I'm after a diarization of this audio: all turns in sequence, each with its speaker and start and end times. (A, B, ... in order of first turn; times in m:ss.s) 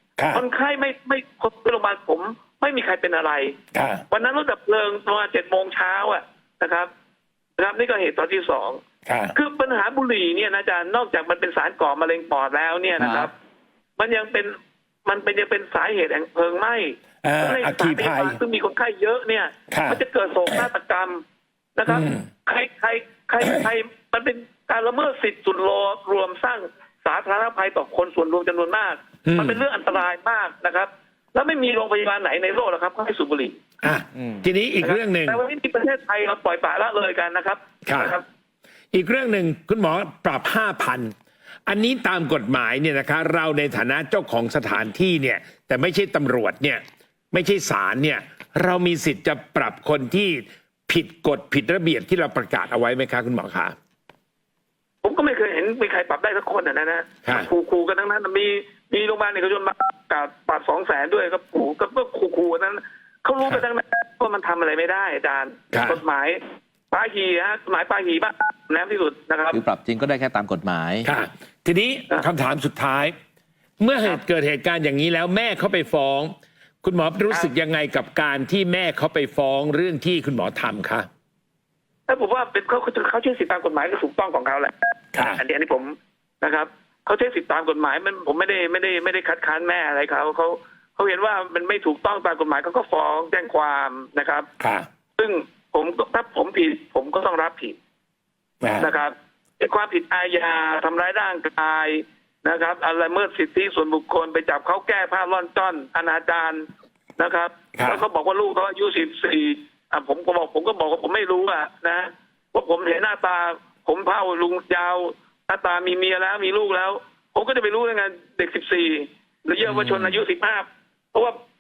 0:00.2-0:00.4 A
0:00.3-0:03.6 B
0:03.7-0:04.0 A
0:04.1-0:06.9 B
0:07.6-0:08.8 B
0:09.0-0:09.4 A
0:09.3-0:13.3 B
0:13.0-0:13.3 C
0:14.0-0:14.6 B
0:15.1-0:21.2 B
0:17.2-0:18.4 A
0:19.7-0:20.7 A
0:21.8-0:33.6 B
0:21.9-0:22.3 A
0:23.4-0:23.7 A
0:29.2-0:29.6 A
0:33.8-0:35.4 A
0:34.2-0:34.5 C
0:34.8-0:38.2 B
0:37.8-0:38.2 A
0:38.9-0:41.1 A
0:41.7-0:53.8 A
0:55.0-1:06.4 B
1:05.7-1:06.0 A
1:06.9-1:09.6 B
1:09.5-1:11.1 C
1:11.0-1:13.1 A
1:13.8-1:21.1 A
1:22.1-1:34.5 B
1:25.1-1:25.4 A
1:34.6-1:34.9 A
1:35.2-1:37.8 B
1:38.6-1:38.9 A
1:38.8-1:46.7 B
1:47.2-2:01.4 B
1:47.8-1:48.0 A
1:59.6-2:00.2 C